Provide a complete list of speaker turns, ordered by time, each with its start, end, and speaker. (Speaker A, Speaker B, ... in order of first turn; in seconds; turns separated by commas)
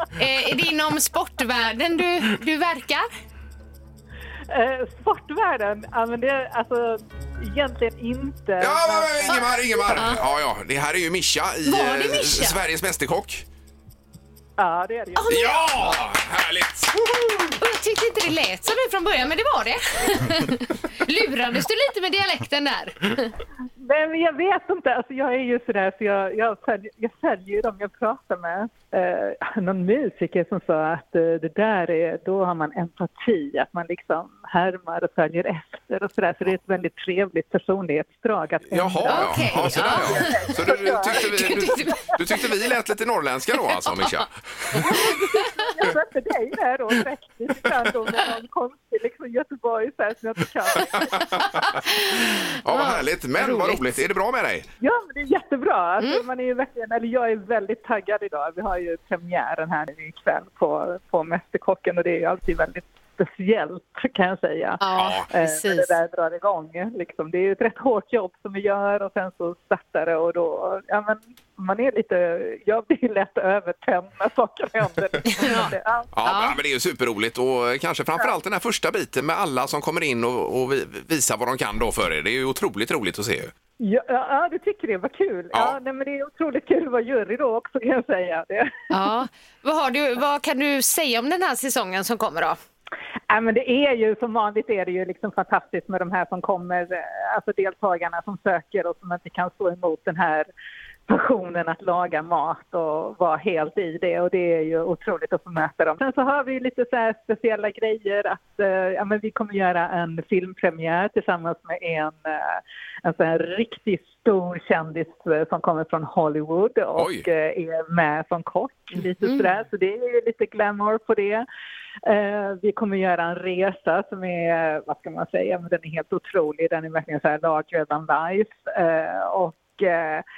Speaker A: 0.1-3.1, Speaker B: 4.5-10.1, Speaker C: 8.6-13.4, Speaker A: 9.9-10.2, Speaker A: 11.6-12.6, Speaker B: 14.6-15.5, Speaker A: 15.2-15.6, Speaker C: 15.3-17.1, Speaker A: 17.5-23.3, Speaker B: 23.8-42.1, Speaker C: 38.7-44.3, Speaker A: 39.0-40.5, Speaker A: 41.1-42.5, Speaker A: 43.7-44.2, Speaker A: 44.7-45.1, Speaker B: 44.7-51.5, Speaker C: 50.8-51.7, Speaker A: 51.7-53.8, Speaker C: 52.5-54.7, Speaker B: 54.8-76.1, Speaker A: 64.8-65.9, Speaker C: 65.0-65.2, Speaker A: 75.3-76.6, Speaker C: 76.1-83.5, Speaker B: 83.8-88.7, Speaker C: 85.5-85.8, Speaker A: 88.9-92.6, Speaker B: 93.3-100.5, Speaker B: 101.1-121.4, Speaker C: 116.9-117.3, Speaker B: 122.0-130.2